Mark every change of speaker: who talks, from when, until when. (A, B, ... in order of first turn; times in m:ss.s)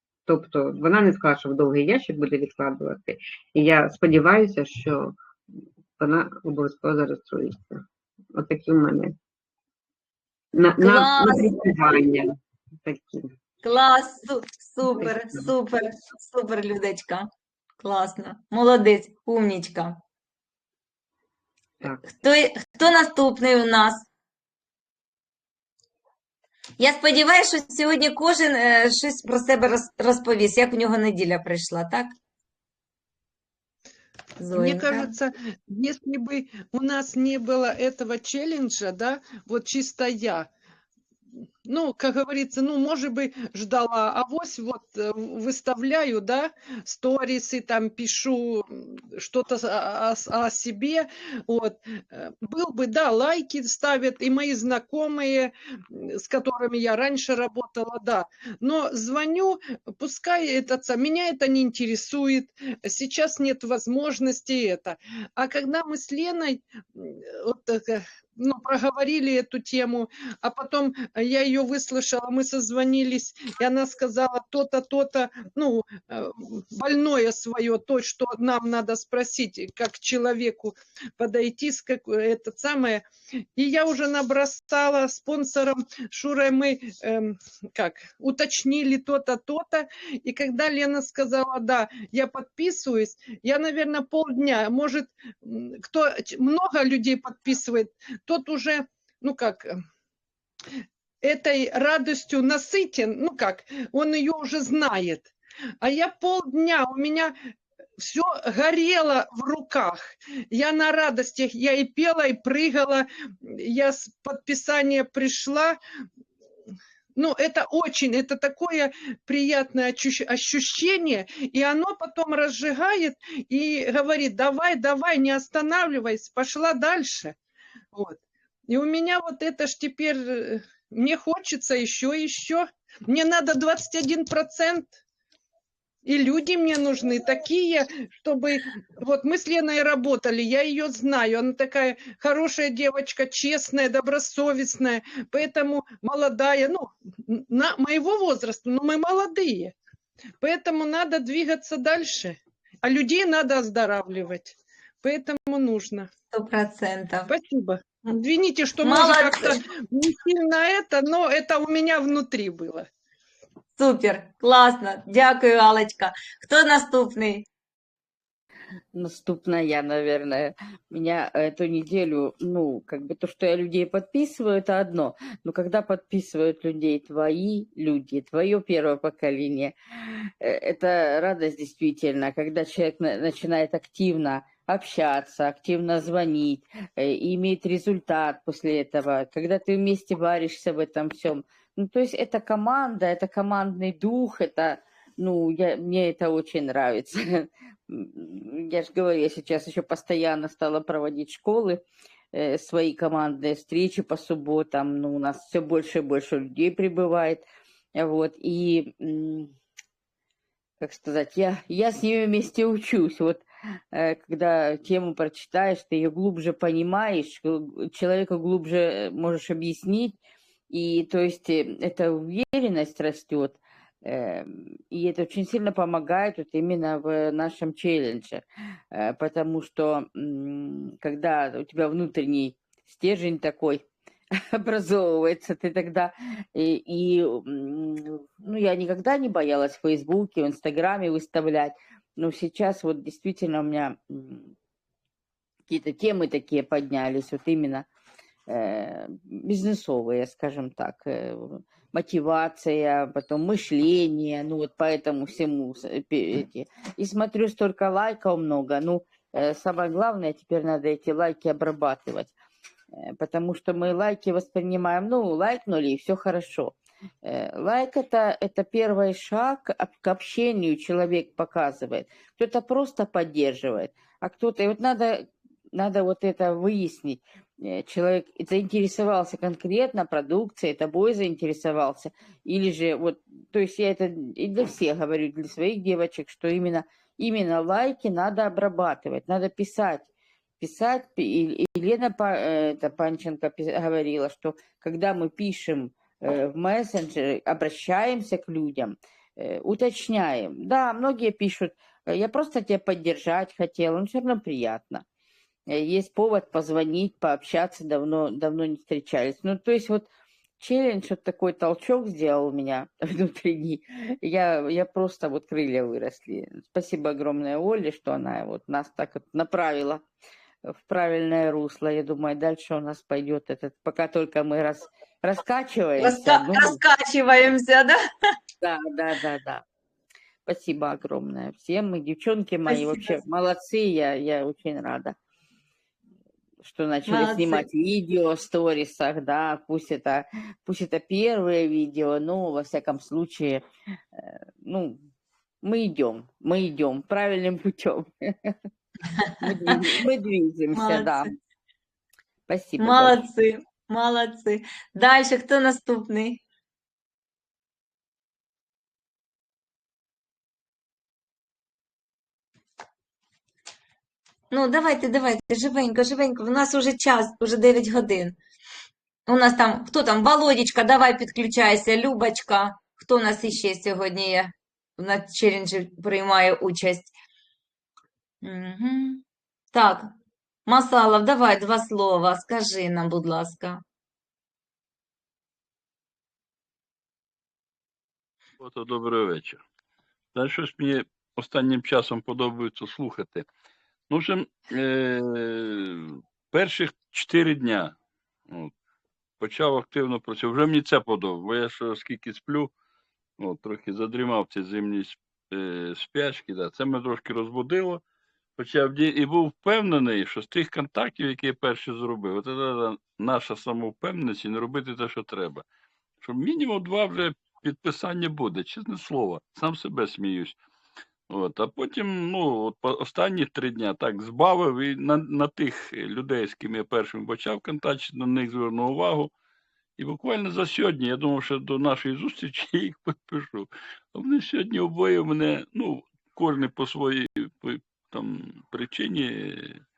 0:00.3-0:05.2 A
0:06.0-0:09.2 A
0:10.5-0:12.3 A
0:10.8-0:11.5 B
0:12.8-0:13.3 A
0:13.6-0:17.3 B
0:14.9-0:15.5 A
0:17.8-0:20.0 B
0:22.0-0:24.1 B
0:26.8-0:32.1 B
0:34.4-0:35.1 B
0:34.5-0:40.5 C
0:41.7-1:23.0 C
1:23.6-1:39.8 C
1:41.2-1:45.3 C
1:45.8-1:47.3 C
1:48.0-1:55.8 C
1:57.2-2:07.4 C
2:08.7-2:14.9 C
2:16.0-2:29.7 C
2:30.4-2:36.1 C
2:36.3-2:37.3 B
2:37.3-2:42.9 C
2:38.8-2:39.6 B
2:43.8-2:47.4 B
2:48.9-3:21.8 D
3:22.3-3:27.4 D
3:28.0-3:29.5 D
3:30.8-3:40.2 D
3:40.7-3:53.8 D
3:54.5-4:04.5 D
4:05.7-4:07.9 D
4:08.5-4:22.3 D
4:23.0-4:50.1 D
4:50.6-5:05.0 D
5:05.7-5:10.1 D
5:10.6-5:20.0 D
5:20.7-5:26.8 D
5:26.0-5:28.0 B
5:28.6-5:29.6 D
5:30.5-5:35.2 D
5:32.7-5:33.2 B
5:36.6-5:43.6 D
5:37.1-5:37.6 B
5:44.2-5:45.0 D
5:45.6-5:48.6 D
5:49.4-5:51.3 D
5:50.7-5:51.3 B
5:52.5-5:53.2 D
5:52.8-5:56.4 B
6:04.5-6:08.4 B
6:09.3-6:17.1 B
6:18.4-6:19.2 B
6:19.7-6:20.1 B
6:20.7-6:23.8 B
6:28.6-6:29.6 E
6:30.3-6:33.5 E
6:34.1-6:38.0 E
6:39.4-6:42.7 E
6:43.4-6:48.0 E
6:48.6-6:55.6 E
6:56.2-7:00.6 E
7:01.3-7:09.3 E
7:10.0-7:19.8 E